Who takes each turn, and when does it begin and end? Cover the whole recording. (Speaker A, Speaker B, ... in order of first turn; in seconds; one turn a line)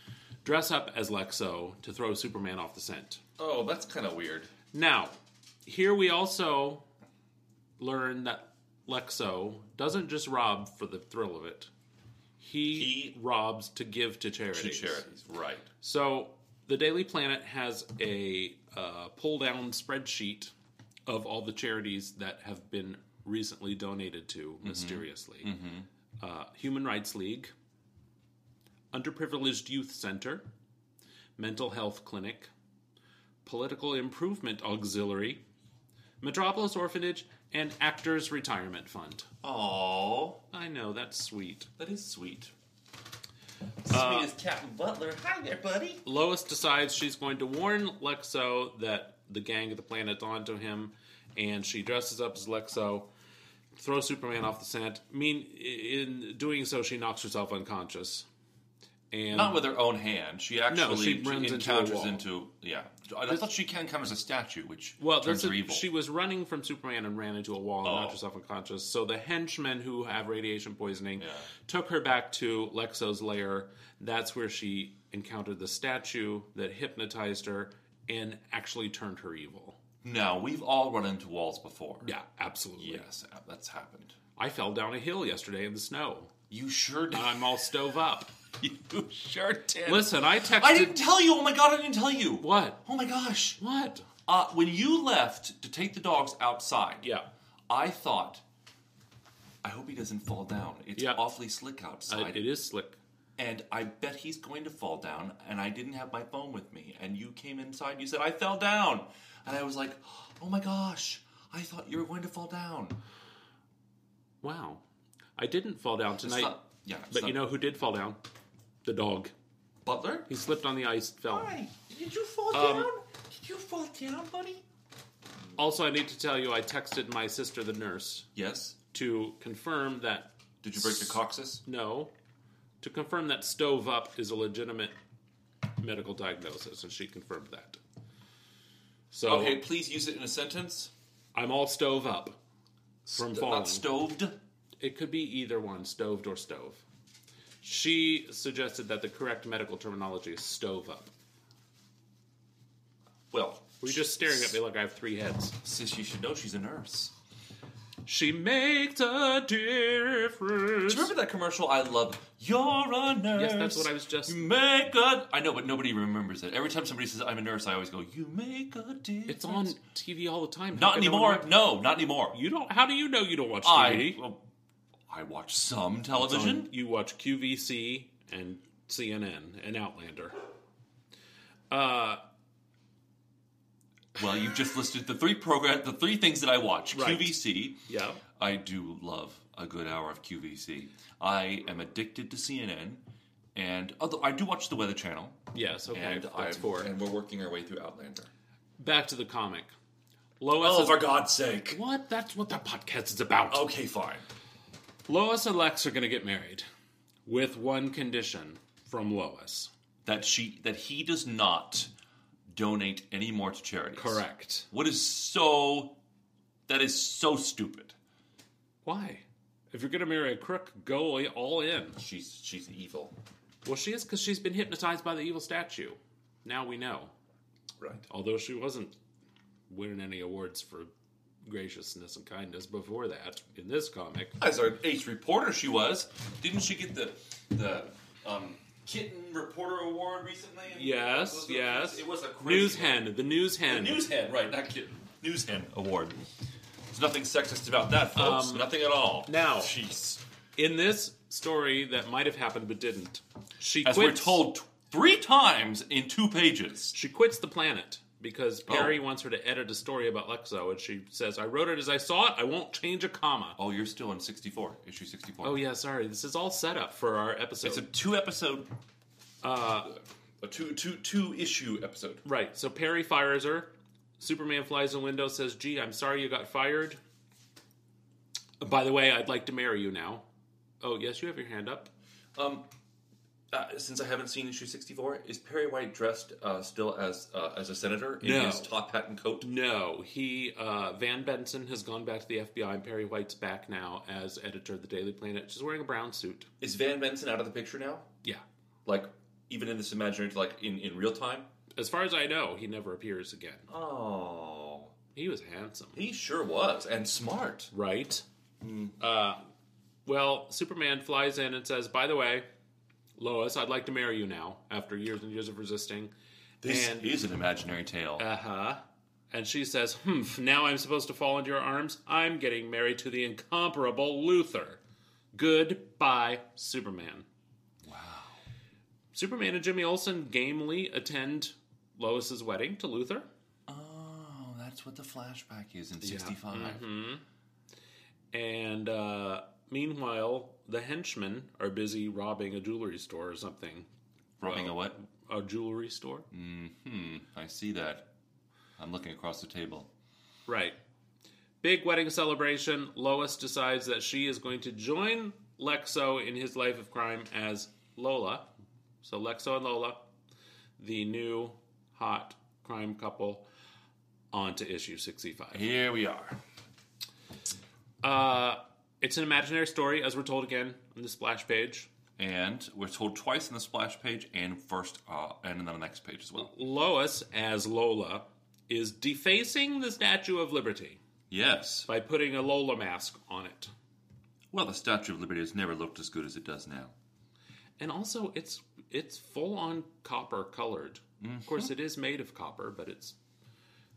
Speaker A: 0.4-3.2
Speaker B: 3.4-4.5
Speaker A: 4.7-6.8
Speaker A: 7.8-11.7
Speaker A: 12.4-15.1
Speaker B: 12.7-13.1
Speaker B: 14.5-15.7
Speaker A: 15.8-20.5
Speaker A: 21.1-25.5
Speaker B: 24.6-25.9
Speaker A: 26.2-27.5
Speaker A: 28.9-30.5
Speaker A: 31.4-32.5
Speaker A: 33.5-35.4
Speaker A: 36.2-39.3
Speaker B: 39.4-40.4
Speaker A: 40.5-41.7
Speaker B: 41.8-42.5
Speaker B: 43.9-46.0
Speaker A: 43.9-44.3
Speaker A: 46.0-53.1
Speaker A: 53.8-58.2
Speaker A: 59.1-59.6
Speaker B: 59.3-65.8
Speaker A: 60.7-62.2
Speaker A: 65.0-79.8
Speaker B: 67.8-68.2
Speaker B: 71.2-71.5
Speaker B: 80.0-82.1
Speaker A: 82.0-83.1
Speaker B: 82.8-84.2
Speaker A: 84.4-86.3
Speaker B: 86.5-87.3
Speaker A: 87.1-88.3
Speaker B: 88.6-93.6
Speaker A: 89.9-91.0
Speaker A: 92.4-92.8
Speaker A: 93.6-94.1
Speaker B: 94.2-97.0
Speaker B: 97.7-98.4
Speaker B: 99.6-102.5
Speaker A: 101.0-101.2
Speaker A: 102.1-103.0
Speaker B: 103.4-113.0
Speaker A: 114.4-114.8
Speaker A: 115.4-116.6
Speaker B: 116.2-117.5
Speaker A: 117.1-118.2
Speaker A: 118.8-119.3
Speaker B: 119.8-120.3
Speaker A: 120.3-121.5
Speaker B: 121.3-124.6
Speaker A: 122.5-122.9
Speaker A: 125.6-128.3
Speaker B: 128.3-128.8
Speaker A: 128.9-131.1
Speaker B: 130.6-131.6
Speaker A: 131.6-132.1
Speaker A: 132.8-134.9
Speaker A: 135.8-137.8
Speaker A: 139.1-139.6
Speaker B: 139.2-140.9
Speaker A: 141.3-142.4
Speaker B: 143.1-144.3
Speaker A: 143.1-143.9
Speaker A: 144.8-146.8
Speaker A: 147.6-151.1
Speaker B: 153.3-154.6
Speaker A: 153.8-155.6
Speaker B: 155.6-157.1
Speaker A: 158.1-161.1
Speaker B: 160.9-169.7
Speaker A: 163.3-164.4
Speaker A: 169.3-171.5
Speaker B: 170.7-172.4
Speaker A: 172.3-174.2
Speaker B: 173.6-174.4
Speaker B: 175.1-176.7
Speaker A: 176.2-180.4
Speaker A: 181.7-182.2
Speaker B: 184.2-193.0
Speaker A: 186.9-188.2
Speaker B: 193.6-195.4
Speaker A: 195.5-196.9
Speaker B: 195.9-198.3
Speaker A: 198.8-199.7
Speaker A: 200.4-201.2
Speaker B: 200.6-201.8
Speaker A: 201.7-203.7
Speaker B: 203.5-204.2
Speaker A: 205.1-206.7
Speaker A: 207.2-209.7
Speaker B: 210.1-211.9
Speaker B: 212.5-216.0
Speaker A: 213.9-214.7
Speaker B: 216.7-217.9
Speaker A: 218.8-222.0
Speaker B: 222.0-223.1
Speaker A: 223.6-227.1
Speaker A: 228.1-228.9
Speaker A: 229.7-230.9
Speaker A: 231.4-234.4
Speaker B: 234.4-243.1
Speaker A: 240.7-244.1
Speaker B: 243.7-246.3
Speaker B: 246.9-250.2
Speaker A: 248.2-248.7
Speaker A: 249.2-249.7
Speaker A: 250.6-254.5
Speaker B: 253.8-256.9
Speaker A: 256.9-263.6
Speaker B: 258.7-259.0
Speaker B: 263.6-265.6
Speaker A: 265.4-267.9
Speaker B: 267.6-268.7
Speaker A: 269.4-269.9
Speaker B: 269.9-272.2
Speaker A: 272.2-277.0
Speaker A: 278.6-280.2
Speaker A: 280.8-281.9
Speaker B: 282.4-282.7
Speaker B: 283.5-289.5
Speaker A: 288.2-288.7
Speaker A: 289.4-296.5
Speaker B: 296.6-298.1
Speaker B: 298.9-301.5
Speaker A: 301.8-303.7
Speaker B: 303.7-304.9
Speaker A: 305.1-306.0
Speaker B: 305.9-307.7
Speaker A: 307.7-308.2
Speaker B: 308.6-309.0
Speaker A: 309.0-309.4
Speaker A: 310.1-312.5
Speaker A: 313.2-316.1
Speaker B: 316.6-318.2
Speaker A: 316.6-317.1
Speaker A: 318.2-324.8
Speaker A: 325.3-327.2
Speaker B: 327.9-328.4
Speaker A: 329.1-333.3
Speaker B: 333.7-336.9
Speaker A: 336.0-337.2
Speaker A: 338.3-343.9
Speaker B: 344.4-345.0
Speaker A: 344.4-346.3
Speaker B: 346.3-348.1
Speaker B: 348.8-349.9
Speaker A: 350.5-350.8
Speaker A: 351.6-358.5
Speaker A: 359.0-360.1
Speaker A: 360.8-363.5
Speaker A: 364.3-365.6
Speaker B: 365.5-366.4
Speaker A: 368.0-371.9
Speaker B: 372.2-376.5
Speaker A: 376.4-381.0
Speaker B: 381.3-381.9
Speaker A: 381.9-383.7
Speaker B: 384.5-386.9
Speaker A: 387.8-393.1
Speaker B: 391.2-391.7